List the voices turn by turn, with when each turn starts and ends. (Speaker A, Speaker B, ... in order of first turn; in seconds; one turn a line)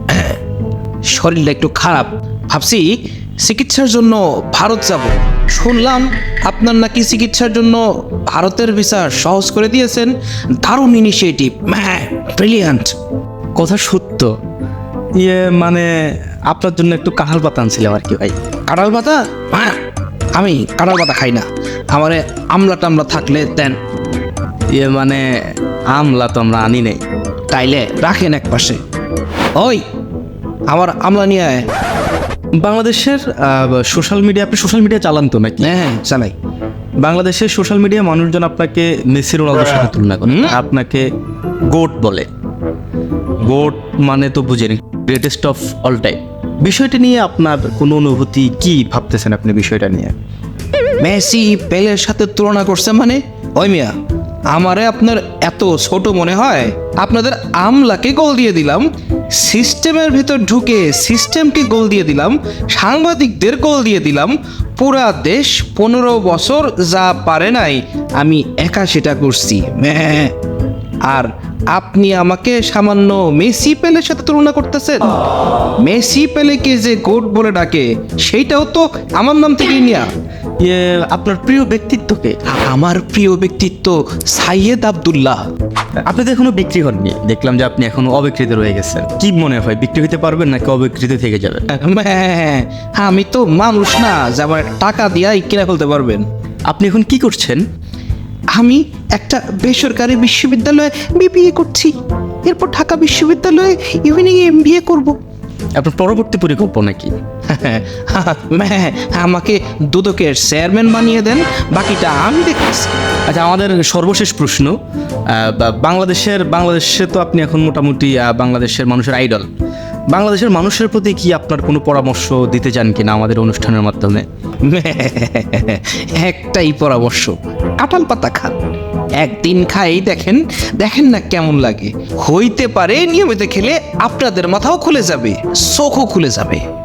Speaker A: 0.1-0.4
Speaker A: 1.1-2.9
Speaker A: 3.4-12.9
Speaker B: 13.6-14.3
Speaker B: 15.2-16.0
Speaker B: 16.5-18.4
Speaker A: 18.7-19.8
Speaker A: 20.4-23.8
Speaker B: 24.8-25.2
Speaker B: 25.9-27.0
Speaker A: 27.5-28.8
Speaker A: 30.7-31.7
Speaker B: 32.6-35.7
Speaker A: 35.6-36.4
Speaker B: 37.0-41.1
Speaker A: 40.3-40.5
Speaker B: 41.7-42.3
Speaker B: 43.4-50.1
Speaker A: 51.0-53.9
Speaker A: 54.5-70.3
Speaker A: 71.1-75.1
Speaker A: 75.8-80.1
Speaker B: 80.6-82.4
Speaker A: 82.5-85.4
Speaker B: 86.0-91.7
Speaker A: 91.7-96.2
Speaker B: 96.7-97.6
Speaker A: 98.6-102.0
Speaker A: 102.5-105.2
Speaker B: 105.8-107.1
Speaker A: 107.5-112.9
Speaker B: 113.3-114.8
Speaker B: 115.3-119.5
Speaker B: 120.1-124.2
Speaker A: 124.7-128.6
Speaker A: 129.2-136.6